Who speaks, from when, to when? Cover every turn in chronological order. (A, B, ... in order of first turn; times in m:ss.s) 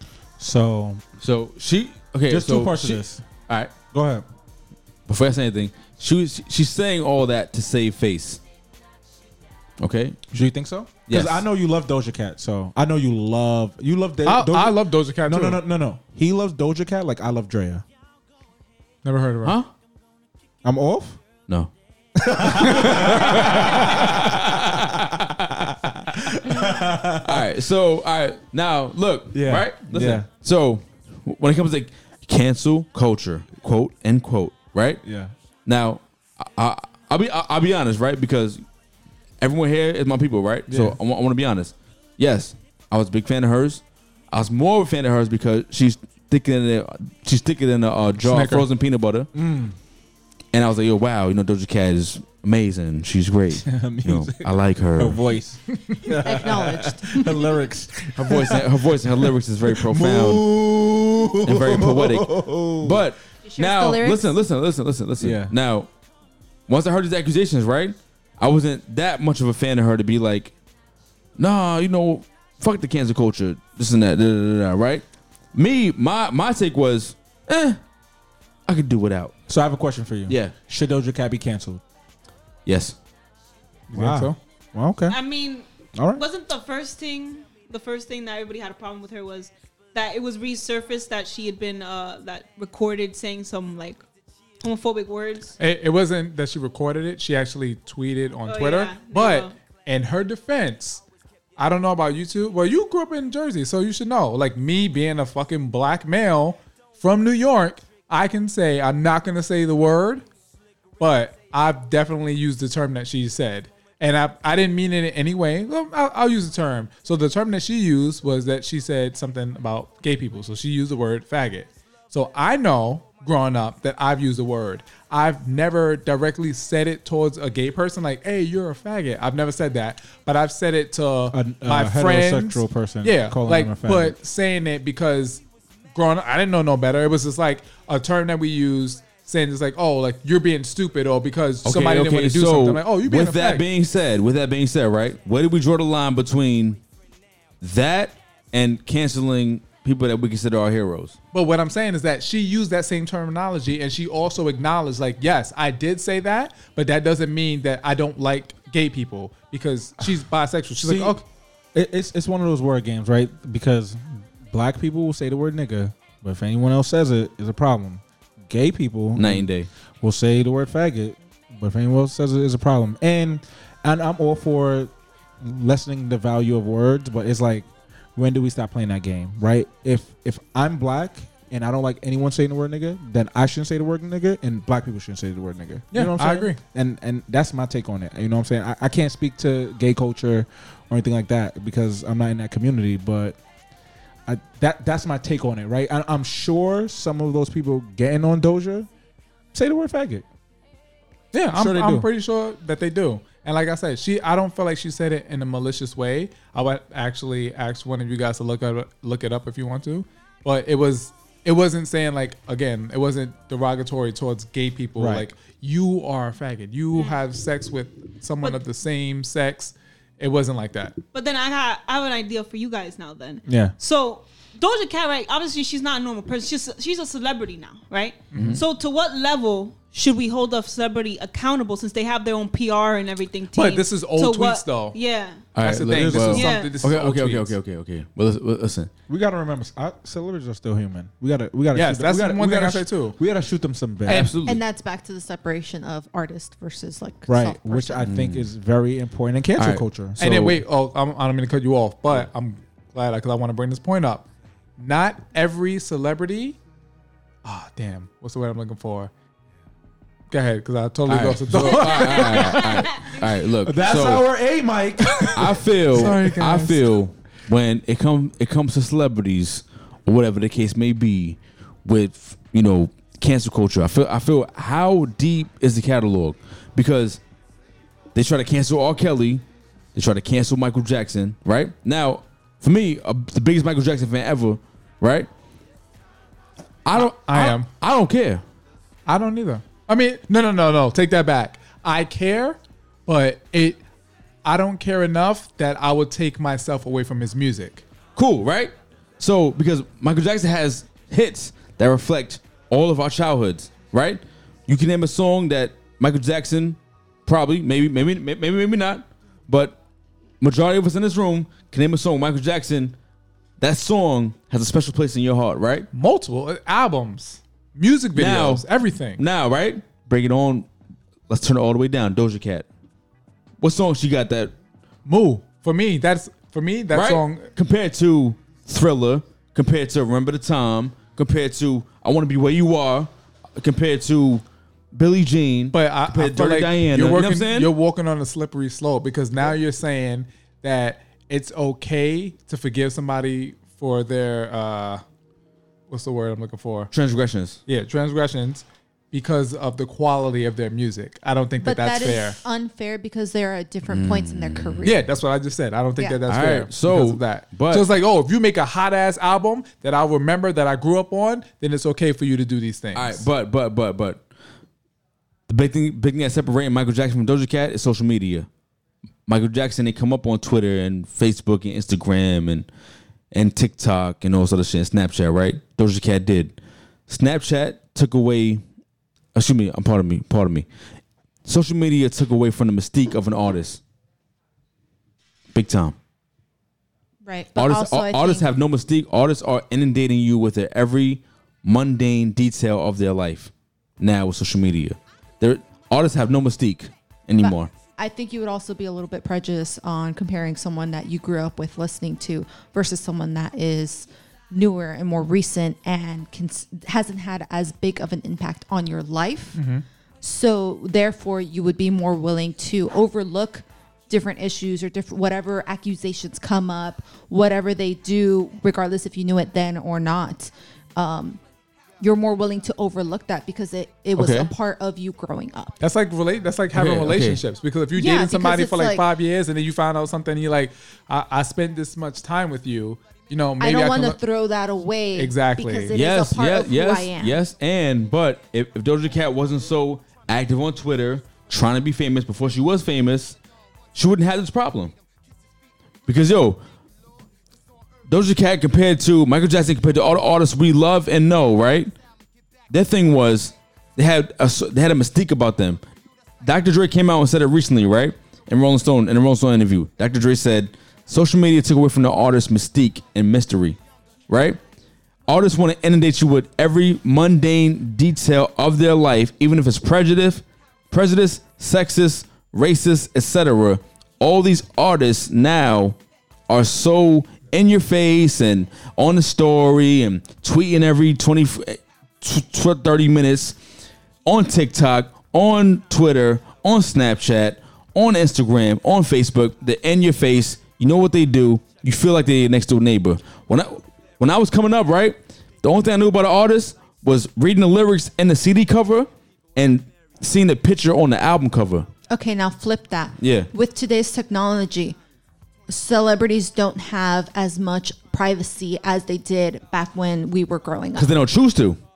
0:00.4-0:01.0 A
0:01.2-0:03.7 B
0:02.3-0:03.2 A
0:03.9-0:04.2 A
0:05.1-0:08.4 B
0:09.8-0:10.2 B
0:10.3-0:17.8 A
0:11.1-0:11.4 B
0:14.2-0:15.6 C
0:19.0-0:19.5 C
0:19.4-0:19.7 B
0:20.6-0:21.2 A
0:22.2-0:27.5 A
0:22.7-0:23.1 C
0:22.8-0:24.7 B
0:27.2-0:35.0 B
0:29.3-0:30.2 A
0:35.0-0:35.3 A
0:35.6-0:38.6 B
0:39.4-0:49.3 B
0:40.7-0:41.0 A
0:48.2-0:48.6 C
0:49.3-0:49.7 A
0:50.5-0:55.2 B
0:53.6-1:03.0 A
0:56.2-0:57.2 D
0:58.2-1:00.4 B
1:01.4-1:05.9 B
1:03.4-1:04.3 D
1:05.2-1:05.5 A
1:06.7-1:10.5 B
1:11.4-1:17.8 B
1:18.7-1:19.3 B
1:19.5-1:21.8 A
1:20.3-1:20.5 B
1:22.6-1:23.0 B
1:23.9-1:24.4 C
1:23.9-1:25.2 A
1:25.1-1:34.0 E
1:25.9-1:26.2 A
1:34.6-1:35.6 E
1:35.6-1:41.0 C
1:38.4-1:39.5 E
1:41.6-1:50.2 C
1:51.0-2:15.4 C
2:11.3-2:14.2 A
2:15.9-2:23.6 C
2:21.6-2:26.8 B
2:27.6-2:31.2 B
2:31.3-2:41.2 C
2:40.8-2:41.2 A
2:41.7-2:49.5 A
2:49.2-2:49.7 B
2:50.0-3:13.4 A
3:05.9-3:06.6 C
3:14.2-3:18.9 A
3:19.5-3:20.2 A
3:21.3-3:41.0 C
3:21.5-3:22.1 A
3:35.0-3:35.3 A
3:36.9-3:37.2 E
3:41.1-3:55.4 E
3:43.5-3:43.7 A
3:48.3-3:48.6 C
3:48.3-3:48.6 B
3:53.5-3:55.0 C
3:55.5-3:58.9 B
3:55.6-3:57.6 C
3:55.9-3:56.4 A
3:56.3-3:56.7 E
3:59.1-4:04.3 A
4:01.7-4:03.2 C
4:04.0-4:04.6 B
4:04.1-4:04.3 C
4:04.4-4:08.0 D
4:07.3-4:10.6 A
4:08.0-4:08.5 B
4:09.6-4:09.8 B
4:10.2-4:14.3 C
4:14.8-4:16.6 C
4:17.4-4:19.1 C
4:20.3-4:23.0 C
4:21.1-4:24.3 B
4:22.9-4:23.1 E
4:23.6-4:25.6 A
4:25.3-4:37.2 B
4:25.9-4:26.9 C
4:38.1-4:39.4 B
4:39.9-4:45.3 B
4:46.8-4:48.4 B
4:47.0-4:47.7 C
4:49.0-4:53.8 C
4:54.4-4:57.8 C
4:58.2-5:09.8 B
5:10.4-5:13.0 B
5:13.6-5:15.9 B
5:15.9-5:19.2 C
5:18.1-5:18.6 B
5:19.2-5:20.7 B
5:21.3-5:22.6 B
5:23.6-5:24.5 B
5:25.0-5:27.5 C
5:26.9-5:37.7 B
5:35.7-5:45.0 C
5:45.9-5:46.9 C
5:46.9-5:47.6 B
5:47.7-5:52.4 C
5:51.6-5:55.0 D
5:53.9-5:54.9 B
5:54.8-6:03.2 C
5:56.3-5:57.9 B
6:02.9-6:04.2 B
6:05.5-6:08.5 B
6:09.3-6:12.7 B
6:13.3-6:16.6 B
6:17.1-6:18.6 B
6:19.3-6:20.6 B
6:21.4-6:23.8 B
6:25.5-6:26.0 B
6:27.2-6:28.4 D
6:27.6-6:37.7 B
6:37.4-6:49.6 D
6:49.6-6:49.8 C
6:50.2-7:01.4 D
7:02.0-7:05.8 D
7:04.2-7:04.5 B
7:05.8-7:14.2 C
7:06.7-7:07.4 B
7:07.9-7:09.0 D
7:13.6-7:17.4 D
7:15.2-7:15.9 C
7:15.9-7:23.4 B
7:23.9-7:24.9 B
7:26.1-7:26.6 B
7:28.1-7:31.9 B
7:32.7-7:35.8 B
7:36.4-7:43.8 B
7:44.3-7:44.6 B
7:45.3-7:56.0 B
7:56.5-8:03.6 B
8:04.2-8:21.9 B
8:22.1-8:25.0 D
8:23.2-8:23.5 B
8:25.7-8:31.2 D
8:31.0-8:31.8 B